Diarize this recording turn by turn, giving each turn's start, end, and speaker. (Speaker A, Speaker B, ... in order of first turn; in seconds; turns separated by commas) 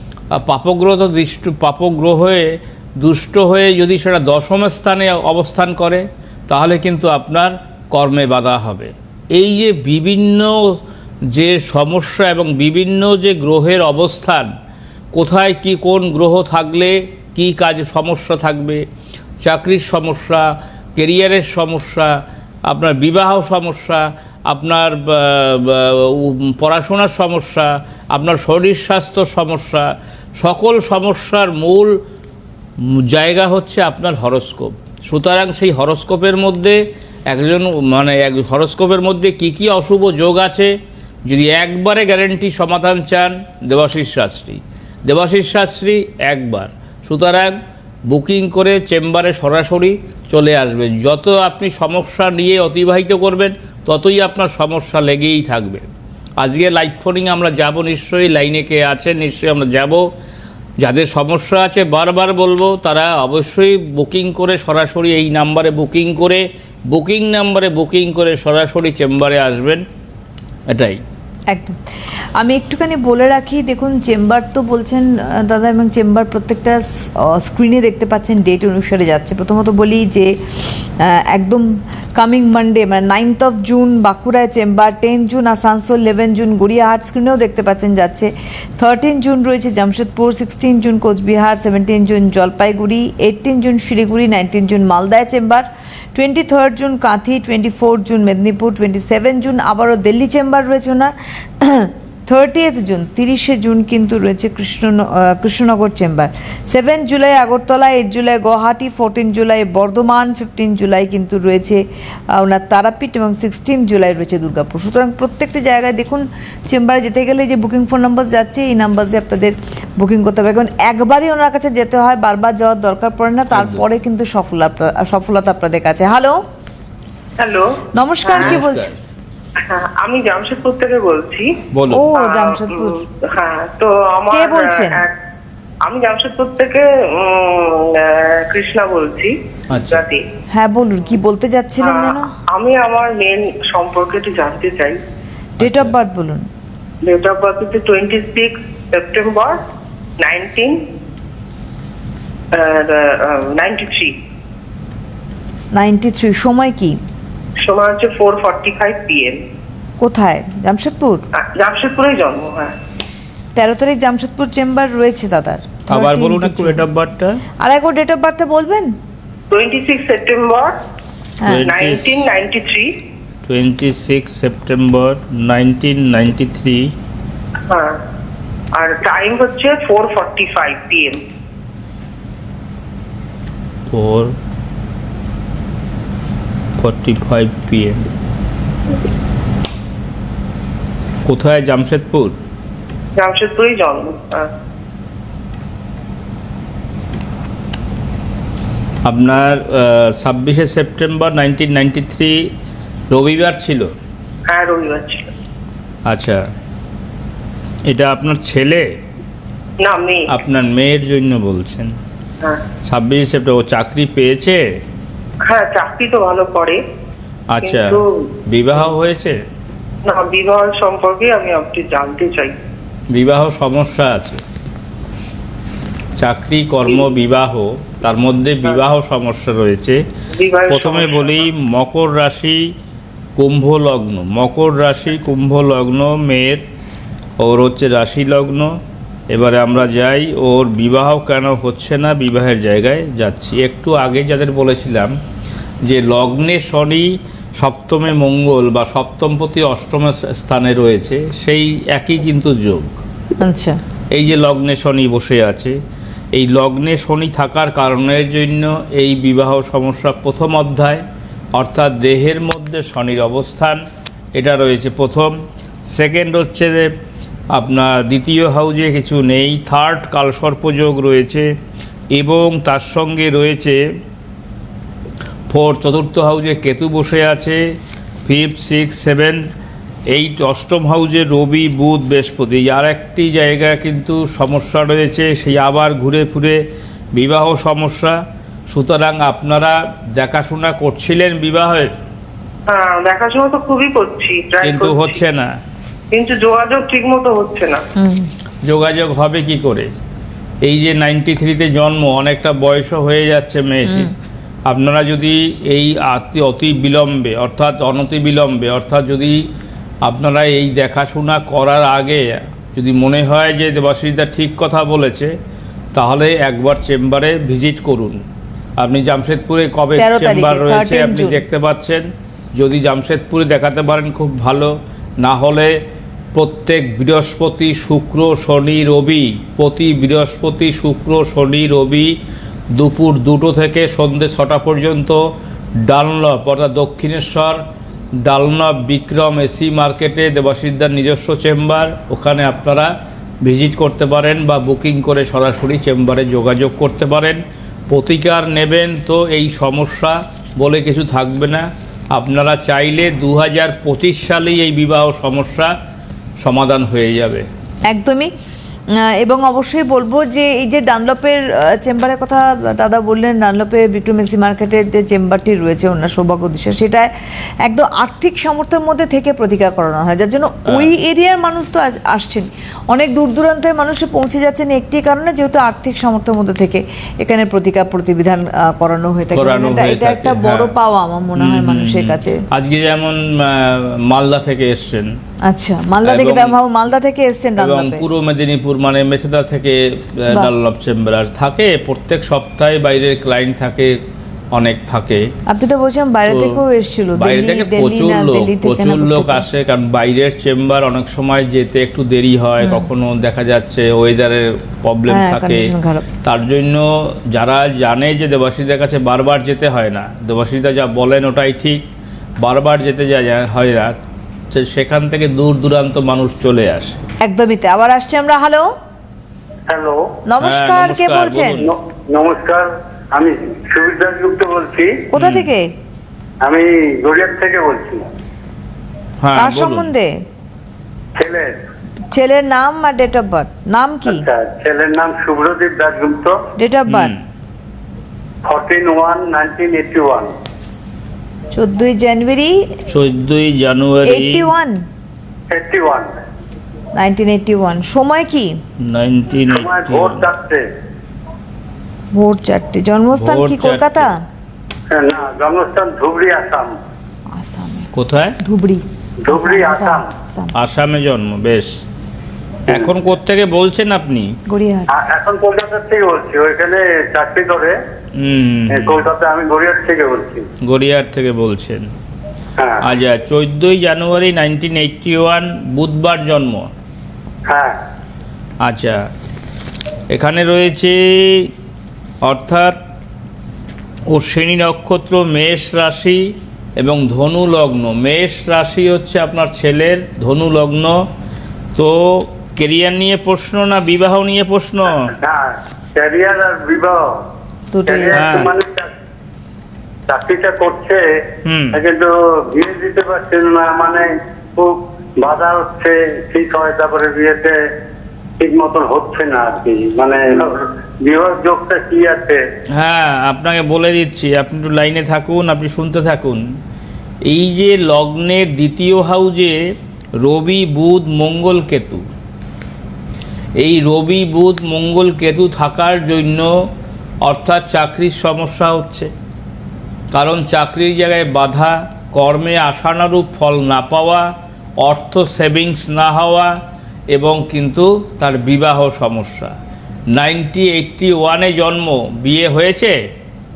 Speaker A: 0.3-10.7, Speaker A: 11.3-14.5, Speaker A: 15.2-18.8, Speaker A: 19.4-22.2, Speaker A: 22.7-31.9, Speaker A: 32.8-36.8, Speaker A: 37.3-40.7, Speaker A: 41.3-47.6, Speaker A: 48.1-55.9, Speaker A: 56.4-60.0, Speaker A: 60.8-69.8, Speaker A: 70.7-71.0, Speaker B: 71.5-71.8, Speaker B: 72.4-111.8, Speaker B: 112.3-126.4, Speaker A: 123.5-123.8, Speaker C: 127.4-127.7, Speaker B: 128.0-128.9, Speaker C: 128.3-128.6, Speaker A: 128.4-129.0, Speaker C: 129.6-131.5, Speaker A: 131.7-132.1, Speaker B: 131.9-133.0, Speaker C: 132.1-135.2, Speaker B: 134.3-135.0, Speaker C: 135.8-139.3, Speaker A: 139.7-140.0, Speaker C: 139.9-140.2, Speaker B: 140.5-142.3, Speaker C: 141.8-145.0, Speaker B: 145.6-146.4, Speaker A: 145.6-145.9, Speaker C: 147.0-149.6, Speaker C: 150.2-150.8, Speaker C: 152.5-154.2, Speaker B: 155.7-157.0, Speaker C: 157.6-159.4, Speaker B: 160.0-161.2, Speaker C: 161.3-162.8, Speaker B: 163.6-166.8, Speaker A: 165.9-167.4, Speaker B: 167.6-168.9, Speaker C: 169.5-170.8, Speaker A: 171.5-172.2, Speaker C: 171.7-172.9, Speaker A: 173.5-176.9, Speaker C: 177.7-178.0, Speaker C: 178.7-181.2, Speaker A: 183.9-184.3, Speaker A: 186.8-188.1, Speaker A: 191.2-192.4, Speaker C: 193.2-194.5, Speaker A: 199.1-202.5, Speaker A: 203.1-203.9, Speaker C: 204.5-205.3, Speaker A: 206.1-206.4, Speaker A: 207.9-208.9, Speaker C: 209.8-210.3, Speaker A: 210.3-211.9, Speaker A: 212.8-214.6, Speaker C: 215.5-216.8, Speaker A: 217.5-219.4, Speaker C: 217.6-218.1, Speaker C: 220.1-222.6, Speaker A: 223.1-224.4, Speaker A: 226.2-230.0, Speaker C: 230.3-231.4, Speaker A: 230.7-232.6, Speaker A: 233.4-236.6, Speaker A: 237.4-238.7, Speaker A: 239.3-245.1, Speaker A: 245.9-253.0, Speaker B: 253.4-253.8, Speaker A: 254.1-255.8, Speaker A: 256.3-261.0, Speaker A: 261.6-263.8, Speaker A: 264.4-265.3, Speaker A: 265.9-266.9, Speaker A: 267.5-271.5, Speaker A: 272.1-273.8, Speaker A: 275.5-277.6, Speaker A: 278.3-279.4, Speaker A: 280.1-286.6, Speaker A: 287.2-288.2, Speaker A: 288.7-291.9, Speaker C: 292.7-295.2, Speaker A: 294.6-295.5, Speaker C: 296.1-297.8, Speaker B: 298.0-298.3, Speaker A: 298.6-299.9, Speaker A: 300.6-304.1, Speaker B: 303.9-304.1, Speaker A: 304.7-309.4, Speaker A: 310.1-315.4, Speaker A: 315.9-318.2, Speaker A: 318.8-322.1, Speaker B: 320.0-321.4, Speaker A: 322.6-325.8, Speaker A: 326.4-332.1, Speaker A: 332.7-335.2, Speaker A: 335.8-337.6, Speaker A: 338.2-355.7, Speaker A: 356.4-357.5, Speaker B: 357.9-358.3, Speaker B: 359.0-367.1, Speaker B: 367.6-382.4, Speaker A: 379.3-380.7, Speaker A: 381.4-385.1, Speaker B: 385.5-388.1, Speaker A: 386.0-386.6, Speaker A: 387.6-394.0, Speaker A: 394.5-395.3, Speaker B: 395.5-399.4, Speaker A: 396.3-396.6, Speaker A: 397.2-405.7, Speaker B: 405.1-406.1, Speaker A: 406.2-411.9, Speaker A: 412.4-414.0, Speaker A: 414.5-417.0, Speaker B: 417.2-418.7, Speaker D: 419.7-420.1, Speaker B: 420.3-421.6, Speaker A: 420.4-421.7, Speaker D: 421.7-425.0, Speaker B: 425.1-425.6, Speaker A: 425.2-425.5, Speaker D: 426.4-428.0, Speaker A: 429.2-429.9, Speaker B: 429.4-430.1, Speaker D: 431.2-431.6, Speaker B: 432.1-434.2, Speaker D: 434.1-436.4, Speaker B: 436.6-437.1, Speaker A: 436.9-437.2, Speaker D: 438.5-440.3, Speaker B: 441.6-442.6, Speaker A: 442.9-444.5, Speaker B: 444.1-444.8, Speaker D: 445.5-446.2, Speaker B: 446.9-448.6, Speaker A: 448.8-450.3, Speaker D: 449.5-450.7, Speaker B: 452.1-454.2, Speaker A: 453.1-454.1, Speaker D: 454.9-456.7, Speaker B: 457.3-460.5, Speaker A: 457.9-458.4, Speaker D: 459.2-460.1, Speaker A: 460.6-461.7, Speaker A: 462.7-464.3, Speaker B: 464.5-464.9, Speaker D: 464.9-467.8, Speaker A: 468.1-469.1, Speaker D: 468.7-470.4, Speaker A: 470.6-471.9, Speaker D: 472.6-472.9, Speaker A: 472.8-476.7, Speaker D: 477.5-477.8, Speaker A: 478.6-479.0, Speaker A: 480.1-481.5, Speaker A: 482.2-482.8, Speaker A: 484.1-486.2, Speaker A: 486.8-491.0, Speaker A: 491.8-495.1, Speaker D: 495.2-497.1, Speaker B: 497.7-498.4, Speaker D: 497.9-498.9, Speaker A: 498.1-498.5, Speaker D: 500.1-501.2, Speaker A: 501.4-501.8, Speaker D: 501.7-507.6, Speaker D: 508.4-512.4, Speaker A: 512.8-516.4, Speaker A: 517.3-519.6, Speaker A: 520.2-522.0, Speaker A: 523.6-526.5, Speaker A: 527.2-529.1, Speaker A: 530.1-534.3, Speaker A: 534.8-536.5, Speaker A: 537.1-539.5, Speaker A: 540.1-543.0